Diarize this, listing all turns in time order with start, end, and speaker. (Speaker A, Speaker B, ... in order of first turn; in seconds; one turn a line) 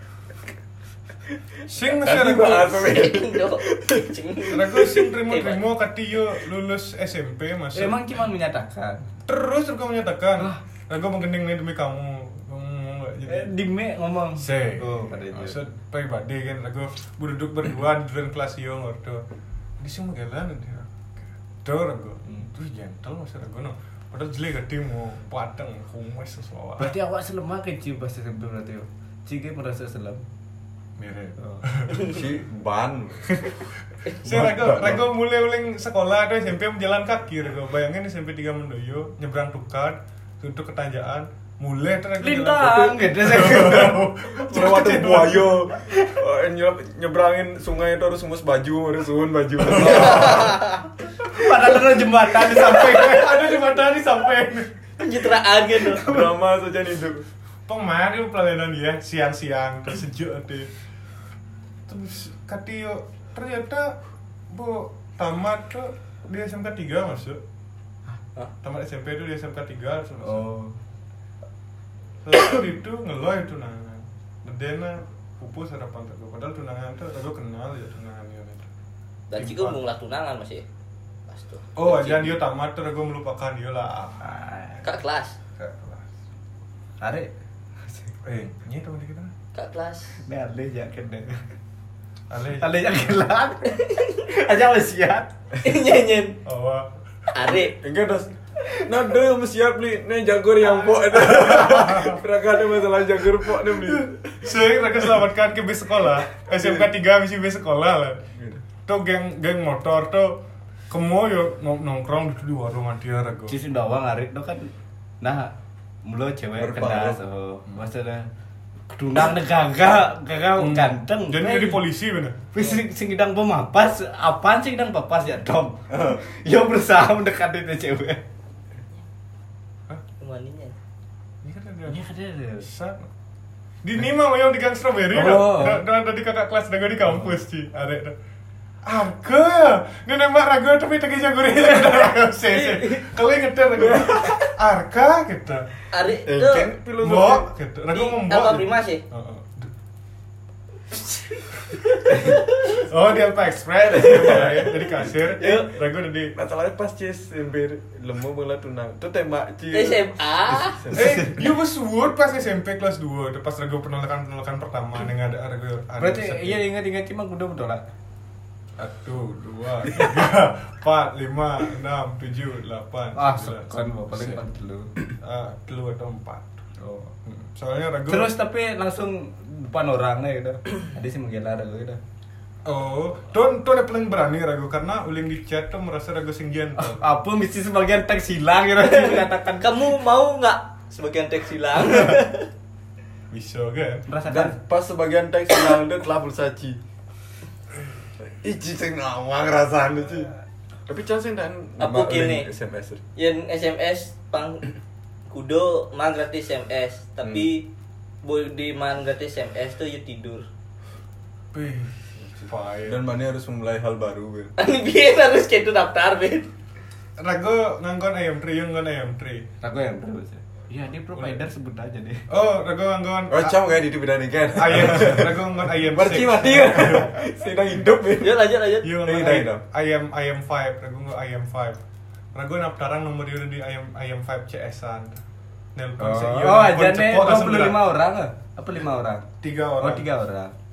Speaker A: 1.7-2.7
Speaker B: 2.0-4.0
Speaker C: 2.7-5.6
Speaker A: 4.5-8.0
Speaker D: 7.7-9.1
Speaker A: 9.2-13.5
Speaker D: 13.3-15.6
Speaker A: 14.3-19.2
Speaker A: 19.8-26.9
Speaker D: 26.8-30.2
Speaker A: 31.0-32.1
Speaker D: 31.4-31.6
Speaker B: 31.9-33.5
Speaker A: 34.2-45.7
Speaker B: 34.2-35.0
Speaker D: 42.2-44.9
Speaker B: 43.5-43.8
Speaker B: 44.3-50.8
Speaker C: 49.8-50.7
Speaker D: 51.2-53.4
Speaker A: 52.5-54.7
Speaker C: 55.0-56.1
Speaker B: 55.8-57.2
Speaker A: 57.7-60.7
Speaker A: 61.9-64.0
Speaker A: 64.5-67.4
Speaker A: 68.6-70.5
Speaker D: 70.2-70.8
Speaker A: 72.2-78.7
Speaker C: 79.3-80.6
Speaker A: 79.3-79.8
Speaker C: 81.3-82.3
Speaker A: 81.8-84.3
Speaker D: 84.2-84.9
Speaker C: 84.8-85.4
Speaker A: 85.6-86.1
Speaker D: 87.0-88.1
Speaker A: 88.2-89.3
Speaker C: 89.5-90.2
Speaker D: 90.2-91.4
Speaker A: 92.3-93.0
Speaker D: 92.6-95.3
Speaker C: 93.7-94.2
Speaker C: 95.6-96.4
Speaker A: 96.4-96.9
Speaker C: 97.3-97.8
Speaker B: 97.5-104.3
Speaker A: 101.3-102.2
Speaker A: 103.7-108.2
Speaker B: 106.5-106.8
Speaker B: 108.4-108.6
Speaker A: 108.8-113.5
Speaker D: 113.5-114.7
Speaker D: 115.2-118.3
Speaker B: 116.5-117.2
Speaker D: 118.9-121.8
Speaker A: 120.6-122.7
Speaker D: 122.5-128.2
Speaker B: 125.9-126.2
Speaker C: 130.2-130.8
Speaker A: 131.4-132.0
Speaker D: 131.9-132.7
Speaker A: 132.6-133.1
Speaker A: 133.8-138.2
Speaker D: 135.1-135.8
Speaker A: 138.8-145.7
Speaker C: 142.5-143.1
Speaker B: 143.9-144.4
Speaker C: 145.9-146.7
Speaker B: 146.2-147.5
Speaker A: 147.0-149.7
Speaker C: 147.9-149.0
Speaker C: 151.1-152.8
Speaker A: 152.7-156.3
Speaker C: 155.2-155.7
Speaker B: 156.3-161.5
Speaker C: 159.7-160.8
Speaker A: 160.9-166.6
Speaker D: 166.0-167.8
Speaker A: 168.8-174.4
Speaker D: 173.2-175.1
Speaker A: 175.2-176.7
Speaker D: 176.8-177.1
Speaker A: 177.2-178.3
Speaker D: 178.1-182.0
Speaker A: 182.6-187.0
Speaker D: 186.8-189.8
Speaker C: 188.9-192.5
Speaker A: 193.3-194.1
Speaker D: 194.1-194.6
Speaker B: 194.2-196.8
Speaker B: 198.2-200.3
Speaker B: 200.9-203.0
Speaker C: 201.8-202.5
Speaker C: 203.2-204.7
Speaker C: 205.3-207.7
Speaker C: 208.2-210.4
Speaker A: 211.5-213.0
Speaker B: 212.8-214.5
Speaker C: 214.6-216.5
Speaker A: 217.2-219.5
Speaker D: 219.6-222.2
Speaker A: 221.1-221.4
Speaker A: 222.3-223.7
Speaker B: 223.3-229.6
Speaker A: 224.5-227.2
Speaker C: 228.2-229.0
Speaker A: 228.8-231.8
Speaker A: 232.3-235.2
Speaker A: 235.7-237.8
Speaker D: 236.0-239.3
Speaker A: 239.4-240.1
Speaker D: 239.8-240.5